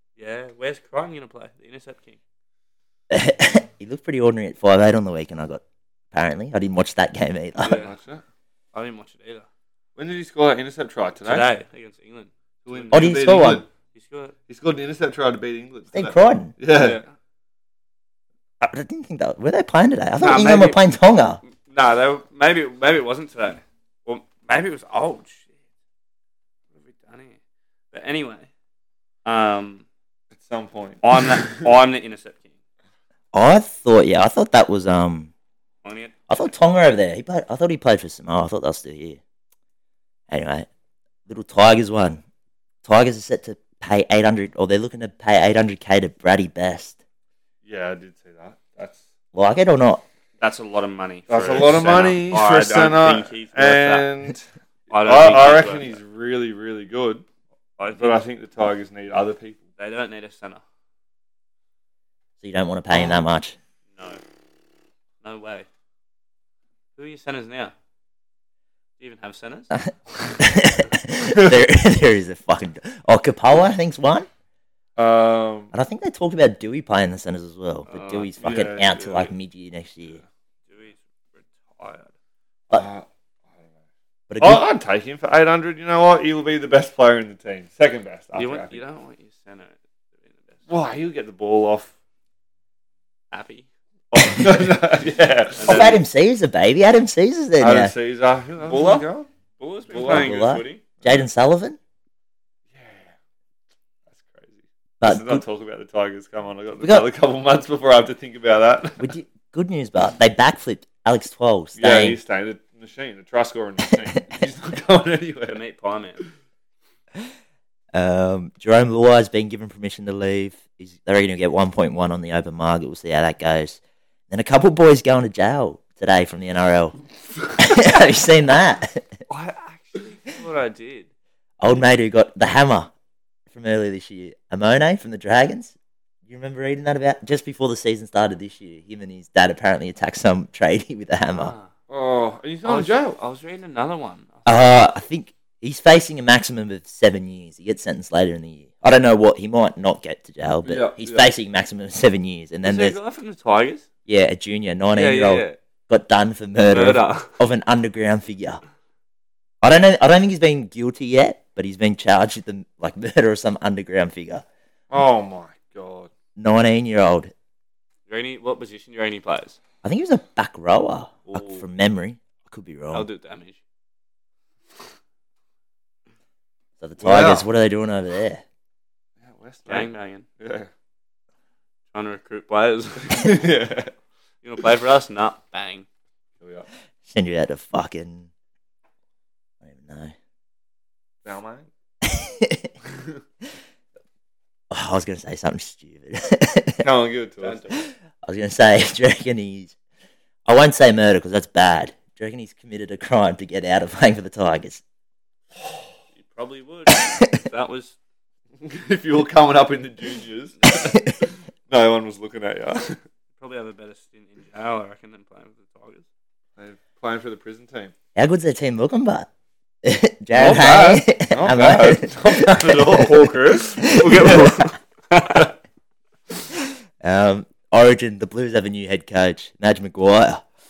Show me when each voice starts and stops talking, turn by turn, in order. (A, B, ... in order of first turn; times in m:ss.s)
0:00.2-0:02.2 A
0:03.1-0:05.6 B
0:06.1-0:07.8 B
0:07.6-0:07.9 A
0:07.7-0:08.2 C
0:08.7-0:09.4 A
0:10.0-0:11.5 C
0:11.2-0:13.3 A
0:12.6-0:13.6 C
0:12.9-0:13.6 B
0:13.9-0:14.3 A
0:14.5-0:17.0 C
0:15.9-0:16.5 B
0:16.7-0:17.0 A
0:18.6-0:21.4 B
0:20.2-0:20.8 A
0:21.6-0:25.5 A
0:26.7-0:27.4 A
0:27.9-0:28.5 A
0:29.2-0:29.8 A
0:30.3-0:31.4 C
0:31.0-0:32.5 A
0:33.3-0:35.3 B
0:35.8-0:36.1 A
0:36.3-0:39.2 B
0:40.3-0:40.7 B
0:41.3-0:42.2 B
0:42.8-0:47.0 B
0:47.6-0:49.0 C
0:49.3-0:50.0 B
0:50.4-0:54.1 A
0:51.3-0:57.2 C
0:54.9-0:55.9 A
0:57.8-0:58.2 A
0:57.9-0:59.6 C
0:59.8-1:00.6 A
1:02.4-1:03.6 B
1:03.9-1:04.2 A
1:05.2-1:05.7 A
1:07.0-1:07.7 A
1:09.0-1:09.7 A
1:09.7-1:14.3 B
1:15.0-1:15.7 C
1:15.7-1:20.2 B
1:17.9-1:19.3 A
1:18.4-1:18.9 C
1:20.7-1:22.1 A
1:22.7-1:23.7 C
1:24.3-1:24.6 B
1:24.4-1:28.8 C
1:28.3-1:30.6 A
1:30.7-1:31.9 C
1:33.3-1:33.7 A
1:34.1-1:36.0 C
1:35.6-1:36.0 A
1:35.6-1:37.9 B
1:37.6-1:39.3 C
1:38.6-1:39.1 A
1:39.6-1:40.8 A
1:39.9-1:40.3 C
1:39.9-1:41.8 B
1:42.7-1:43.1 C
1:44.1-1:49.1 C
1:45.0-1:45.4 B
1:49.0-1:52.2 B
1:51.8-1:55.6 C
1:55.5-1:56.2 A
1:57.9-2:03.8 B
2:04.3-2:07.0 B
2:07.6-2:09.1 B
2:09.3-2:11.1 A
2:11.6-2:12.9 B
2:13.5-2:15.7 B
2:16.3-2:21.5 B
2:21.3-2:21.7 A
2:21.9-2:23.2 C
2:22.6-2:24.4 A
2:24.4-2:33.0 B
2:30.6-2:31.3 C
2:32.6-2:33.8 A
2:34.1-2:38.6 B
2:34.9-2:35.6 A
2:36.7-2:37.3 A
2:39.6-2:44.4 B
2:44.9-2:46.1 C
2:46.4-2:47.3 B
2:48.1-2:49.6 A
2:49.8-2:53.0 B
2:51.3-2:51.6 A
2:52.9-2:53.6 A
2:56.8-2:58.4 B
2:57.0-2:57.5 C
2:59.2-3:00.7 C
2:59.7-3:00.2 A
3:01.9-3:03.4 A
3:03.0-3:03.9 C
3:04.4-3:05.8 A
3:06.4-3:06.7 C
3:07.1-3:08.3 B
3:09.6-3:10.1 B
3:11.2-3:11.7 C
3:12.0-3:12.7 B
3:14.7-3:16.8 B
3:16.8-3:17.6 C
3:17.4-3:17.8 A
3:18.2-3:19.7 B
3:20.4-3:24.8 B
3:26.2-3:28.0 A
3:28.6-3:31.0 C
3:30.9-3:31.2 B
3:31.7-3:33.0 C
3:33.4-3:36.0 A
3:36.6-3:37.9 C
3:38.2-3:39.3 B
3:39.8-3:43.1 B
3:40.4-3:43.4 C
3:42.9-3:45.5 A
3:43.7-3:44.7 B
3:44.1-3:44.4 C
3:47.0-3:50.4 B